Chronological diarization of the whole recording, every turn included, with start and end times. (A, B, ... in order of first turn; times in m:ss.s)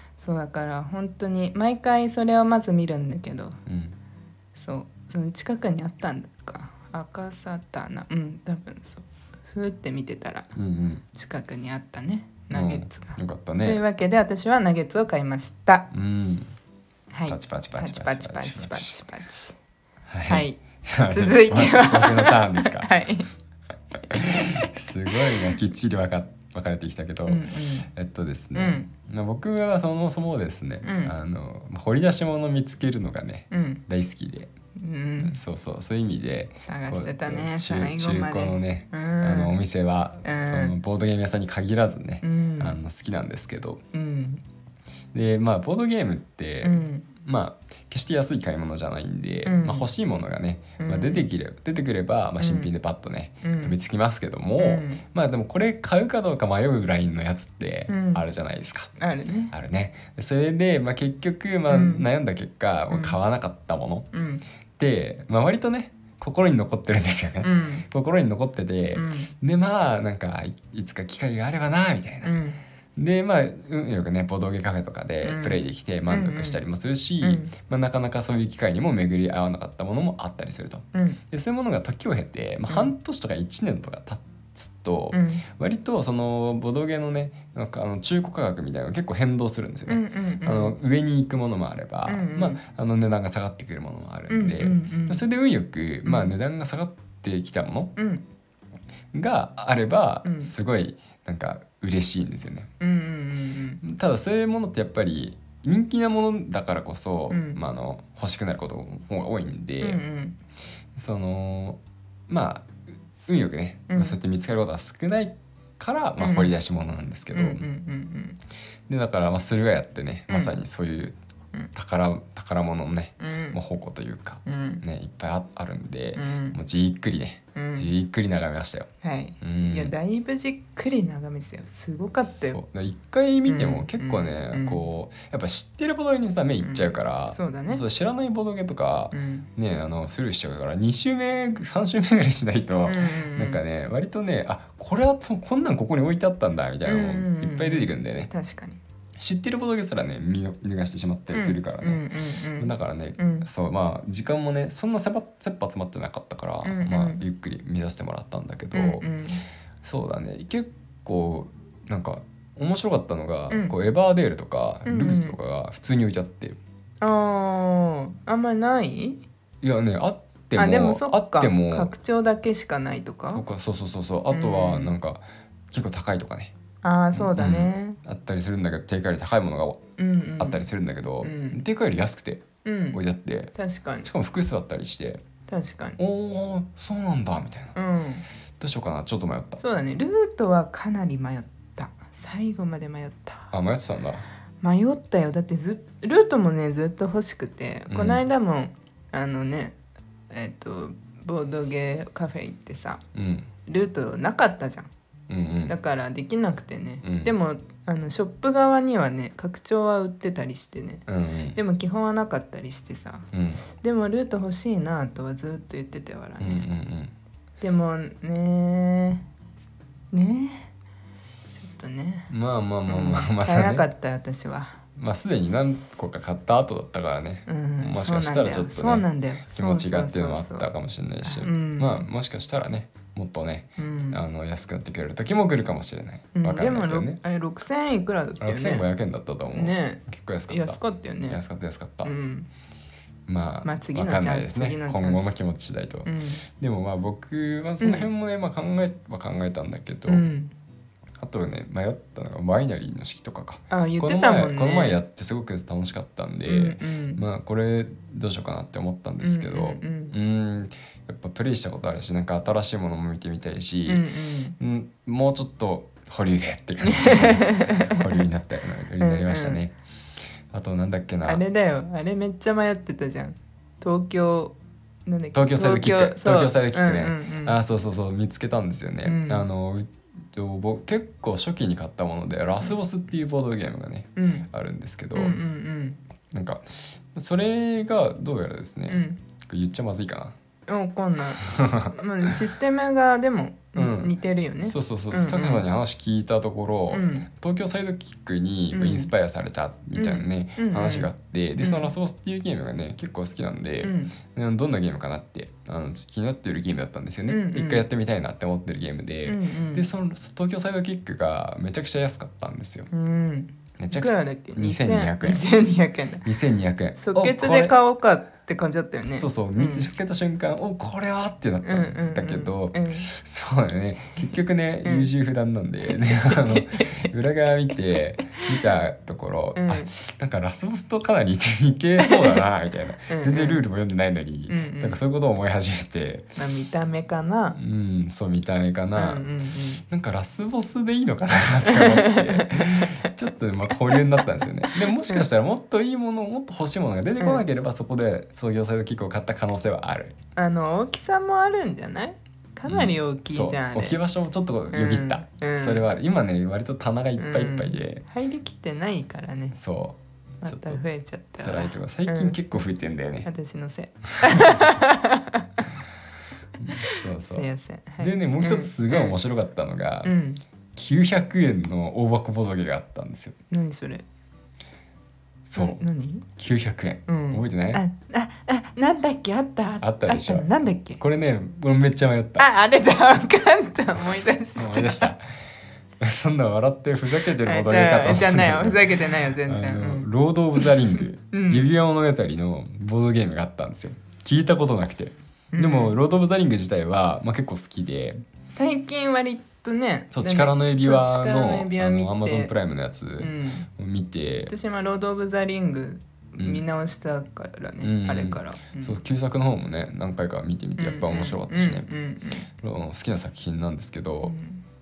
0:00.2-0:03.6 A
0:03.6-0:04.0 B
0:04.5-0:10.5 A
0:10.5-0:11.0 B
0:11.1-0:15.9 A
0:12.5-0:13.8 B
0:15.9-0:16.5 B
0:17.1-0:19.6 A
0:17.3-0:19.0 B
0:20.1-0:22.9 B
0:20.3-0:23.3 A
0:24.1-0:34.5 B
0:24.2-0:24.5 A
0:25.1-0:25.5 A
0:27.3-0:27.9 A
0:28.5-0:28.9 A
0:30.8-0:31.1 A
0:33.5-0:33.8 A
0:34.8-0:35.4 A
0:35.2-0:43.8 B
0:36.6-0:39.6 A
0:40.2-0:40.8 A
0:42.2-0:42.8 A
0:43.9-0:44.4 A
0:45.1-0:58.9 B
0:46.6-0:47.1 A
0:49.4-0:49.9 A
0:50.8-0:51.2 A
0:52.4-0:52.7 A
0:53.4-0:53.7 A
0:54.6-0:55.0 A
0:57.9-0:58.2 A
0:59.0-0:59.5 A
0:59.5-1:04.1 B
1:01.7-1:02.1 A
1:02.9-1:03.2 A
1:04.1-1:04.4 A
1:04.8-1:12.4 B
1:07.4-1:07.8 A
1:09.0-1:09.3 A
1:12.2-1:12.6 A
1:13.0-1:37.9 B
1:15.2-1:16.6 A
1:17.2-1:17.5 A
1:20.9-1:21.2 A
1:25.1-1:25.4 A
1:29.9-1:30.8 A
1:32.1-1:32.6 A
1:34.3-1:35.2 A
1:36.0-1:36.3 A
1:38.0-1:38.2 A
1:39.1-1:42.7 B
1:40.2-1:40.5 A
1:42.8-1:43.8 A
1:43.8-1:50.0 B
1:47.3-1:47.6 A
1:49.8-1:50.4 A
1:51.0-1:57.6 B
1:53.9-1:54.2 A
1:56.2-1:56.5 A
1:57.3-1:58.4 A
1:58.9-2:01.2 B
2:00.3-2:00.6 A
2:01.7-2:08.9 B
2:03.2-2:03.6 A
2:04.4-2:04.8 A
2:06.2-2:06.6 A
2:07.5-2:07.9 A
2:09.0-2:12.6 A
2:09.4-2:09.9 B
2:12.3-2:28.3 B
2:13.5-2:14.8 A
2:16.6-2:17.8 A
2:19.1-2:19.5 A
2:22.8-2:23.6 A
2:26.8-2:28.8 A
2:29.2-2:39.1 B
2:31.3-2:33.5 A
2:36.6-2:37.2 A
2:38.7-2:39.4 A
2:39.8-2:46.6 B
2:44.8-2:45.4 A
2:47.0-2:49.2 A
2:49.6-2:51.9 B
2:50.6-2:53.4 A
2:53.3-2:56.5 B
2:54.3-2:54.9 A
2:56.8-2:58.0 A
2:57.1-2:59.8 B
3:00.0-3:00.7 A
3:00.4-3:03.5 B
3:01.2-3:01.6 A
3:02.6-3:03.0 A
3:03.5-3:04.1 A
3:04.0-3:05.2 B
3:05.5-3:06.0 A
3:06.0-3:07.7 B
3:07.7-3:08.2 A
3:08.6-3:09.6 B
3:09.6-3:13.5 A
3:13.5-3:14.2 B
3:14.6-3:19.8 A
3:17.9-3:18.2 B
3:20.3-3:23.0 A
3:23.1-3:23.5 B
3:23.6-3:24.9 A
3:25.3-3:25.7 B
3:25.7-3:36.6 A
3:27.0-3:27.3 B
3:31.1-3:31.6 B
3:33.3-3:33.6 B
3:36.4-3:37.1 B
3:37.6-3:39.2 A
3:40.1-3:40.7 A
3:41.5-3:42.3 A
3:42.3-3:43.9 B
3:42.9-3:44.8 A
3:45.0-3:57.2 B
3:47.5-3:50.7 A
3:51.2-3:52.1 A
3:53.8-3:54.2 A
3:56.3-3:58.9 A
3:58.4-4:02.1 B
3:59.5-4:01.4 A
4:02.0-4:02.5 A
4:03.3-4:10.3 B
4:03.6-4:05.3 A
4:06.0-4:06.4 A
4:07.8-4:08.1 A
4:10.1-4:10.5 A
4:11.2-4:24.0 B
4:13.7-4:15.0 A
4:16.4-4:17.2 A
4:19.2-4:20.2 A
4:23.8-4:24.6 A
4:24.6-4:29.8 B
4:26.8-4:28.2 A
4:29.0-4:29.6 A
4:30.5-4:31.4 B
4:31.2-4:37.6 A
4:35.3-4:45.4 B
4:39.0-4:39.4 A
4:44.2-4:44.5 A
4:45.1-4:46.0 A
4:46.3-4:50.3 B
4:48.9-4:49.2 A
4:50.7-4:55.6 A
4:51.4-4:52.3 B
4:53.7-5:12.9 B
4:56.9-4:57.3 A
4:58.7-4:59.1 A
4:59.9-5:01.9 A
5:03.8-5:04.1 A
5:07.3-5:07.8 A
5:09.2-5:09.8 A
5:12.9-5:16.2 A
5:13.8-5:15.4 B
5:16.2-5:17.8 B
5:17.0-5:19.9 A
5:19.1-5:36.3 B
5:21.6-5:23.1 A
5:24.8-5:25.1 A
5:26.1-5:27.1 A
5:29.6-5:29.9 A
5:32.0-5:32.4 A
5:33.1-5:33.6 A
5:34.5-5:35.0 A
5:36.4-5:37.6 A
5:37.6-5:39.2 B
5:39.0-5:39.8 A
5:39.9-5:50.2 B
5:41.6-5:43.1 A
5:44.7-5:45.2 A
5:47.2-5:47.4 A
5:50.4-5:54.0 A
5:52.6-5:58.0 B
5:54.7-5:55.8 A
5:57.2-5:59.6 A
5:59.5-6:00.8 B
6:00.4-6:02.4 A
6:01.4-6:03.3 B
6:03.2-6:05.6 A
6:04.2-6:04.6 B
6:06.6-6:07.5 B
6:06.7-6:09.2 A
6:08.0-6:10.1 B
6:10.0-6:10.4 A
6:10.7-6:13.4 B
6:13.5-6:14.0 A
6:15.4-6:17.8 B
6:15.6-6:16.2 A
6:17.1-6:21.0 A
6:19.8-6:22.4 B
6:22.4-6:25.1 A
6:24.6-6:25.4 B
6:26.0-6:38.2 B
6:27.4-6:31.7 A
6:35.5-6:36.0 A
6:38.5-6:42.5 A
6:40.1-6:44.5 B
6:43.2-6:43.7 A
6:44.5-6:49.0 A
6:46.4-6:46.6 B
6:47.8-6:51.9 B
6:50.8-6:52.5 A
6:52.5-6:54.4 B
6:54.2-6:54.6 A